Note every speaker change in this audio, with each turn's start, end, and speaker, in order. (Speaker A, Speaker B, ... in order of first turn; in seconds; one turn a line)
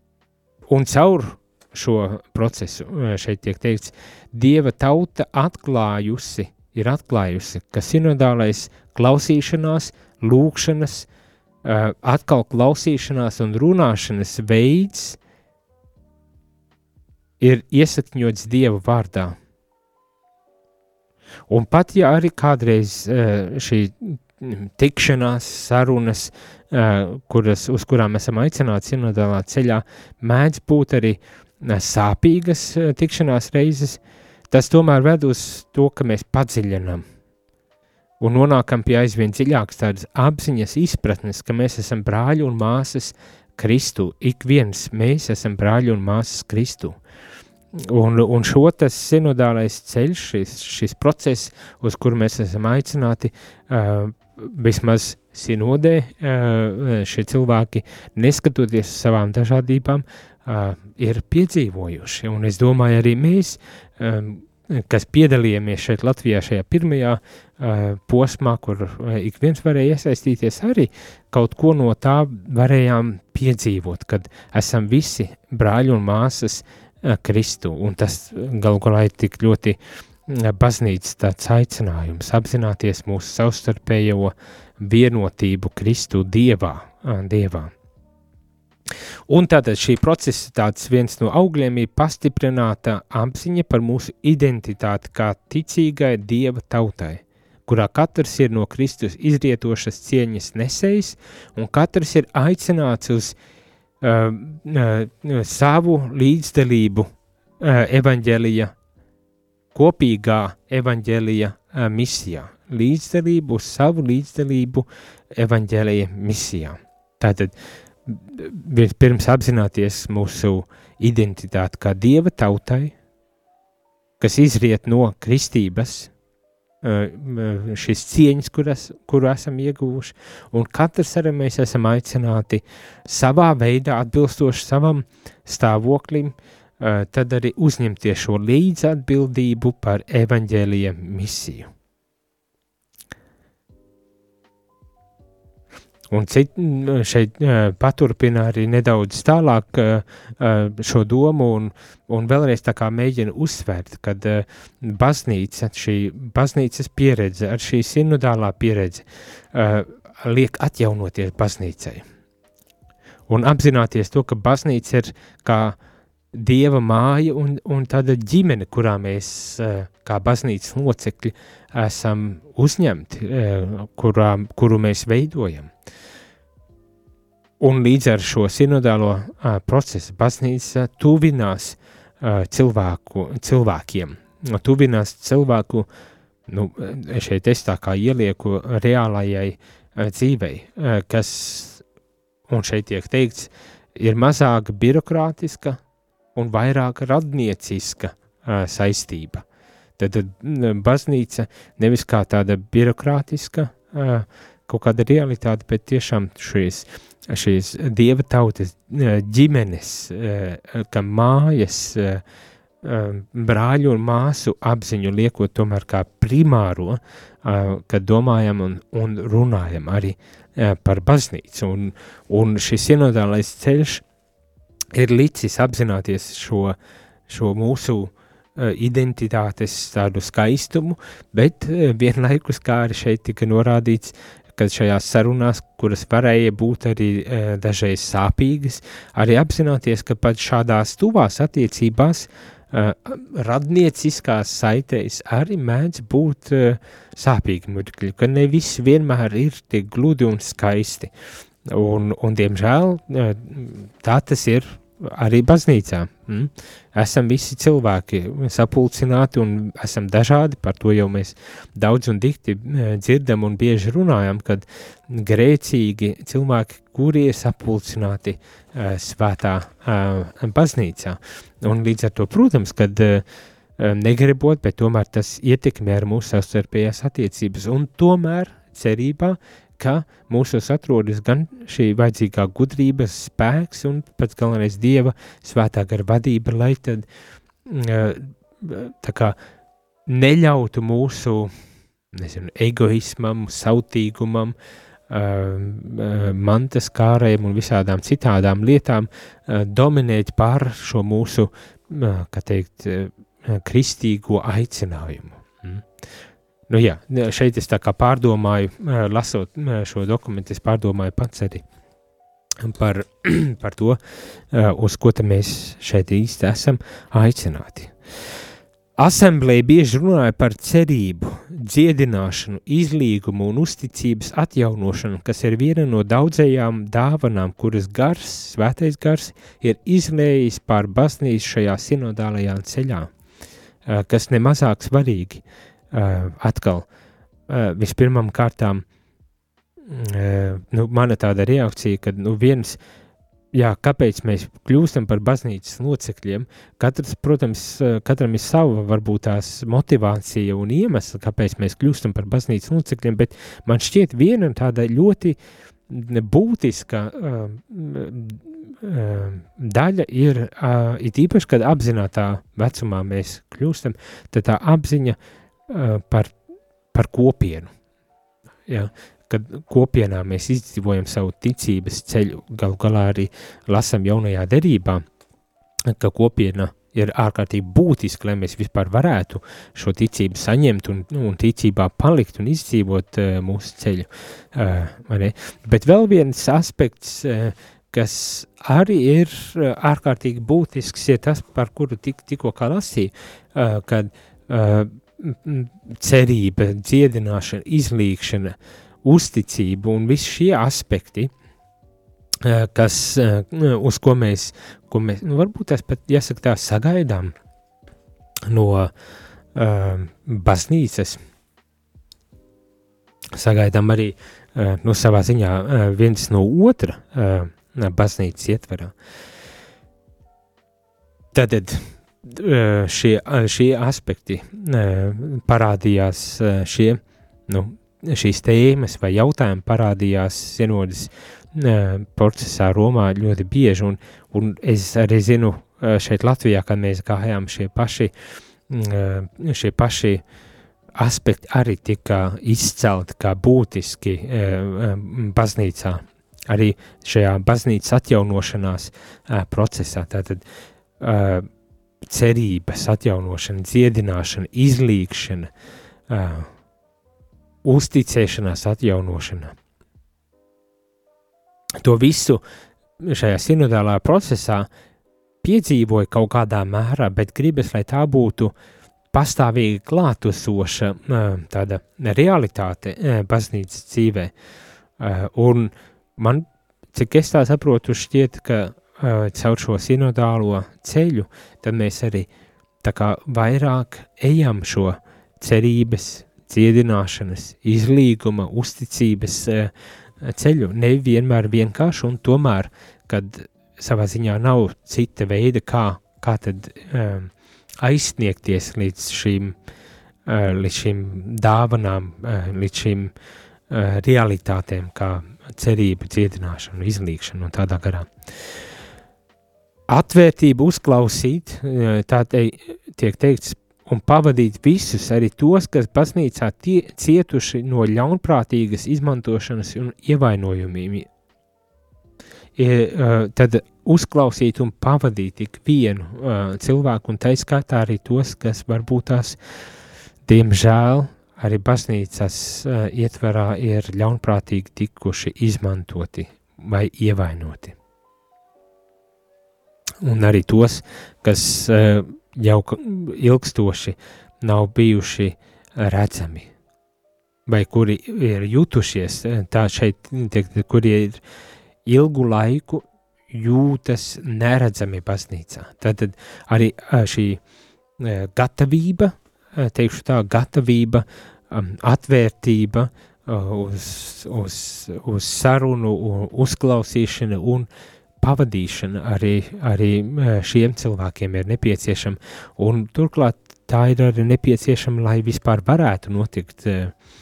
Speaker A: 0.7-11.1
Speaker A: 11.6-15.2
Speaker A: 17.4-19.4
Speaker A: 21.5-37.0
Speaker A: 38.2-47.0
Speaker A: 47.8-87.7
Speaker A: 89.3-103.3
Speaker A: 104.0-107.1
Speaker A: 107.6-108.7
Speaker A: 109.7-117.5
Speaker A: 118.0-122.9
Speaker A: 124.2-126.1
Speaker A: 126.8-141.7
Speaker A: 146.1-162.0
Speaker A: 163.3-165.8
Speaker A: 166.3-175.7
Speaker A: 177.6-185.9
Speaker A: 186.5-191.8
Speaker A: 192.5-195.8
Speaker A: 196.3-199.4
Speaker A: 200.0-212.2
Speaker A: 212.8-224.0
Speaker A: 224.9-226.8
Speaker A: 227.3-251.1
Speaker A: 251.7-273.2
Speaker A: 273.8-287.1
Speaker A: 287.6-289.4
Speaker A: 290.1-291.5
Speaker A: 292.1-294.5
Speaker A: 295.1-305.8
Speaker A: 306.7-311.6
Speaker A: 312.6-314.0
Speaker A: 314.5-317.9
Speaker A: 319.0-333.1
Speaker A: 333.9-336.9
Speaker A: 337.5-338.8
Speaker A: 339.9-342.8
Speaker A: 343.5-355.4
Speaker A: 355.9-365.2
Speaker A: 365.7-366.4
Speaker A: 366.9-367.7
Speaker A: 368.7-375.0
Speaker A: 375.9-401.3
Speaker A: 402.4-407.3
Speaker A: 408.5-408.9
Speaker A: 409.5-411.2
Speaker A: 413.3-418.9
Speaker A: 421.3-438.1
Speaker A: 438.7-440.2
Speaker A: 441.0-450.4
Speaker A: 451.0-451.5
Speaker A: 452.1-455.5
Speaker A: 456.1-456.5
Speaker A: 457.6-459.5
Speaker A: 461.8-462.4
Speaker A: 463.0-464.7
Speaker A: 465.4-468.5
Speaker A: 469.1-474.3
Speaker A: 475.0-482.3
Speaker A: 482.8-499.5
Speaker A: 500.2-503.1
Speaker A: 503.7-508.1
Speaker A: 509.9-521.1
Speaker A: 522.6-529.4
Speaker A: 530.2-537.7
Speaker A: 540.0-546.5
Speaker A: 547.5-551.2
Speaker A: 551.9-557.4
Speaker A: 558.0-567.7
Speaker A: 568.2-576.9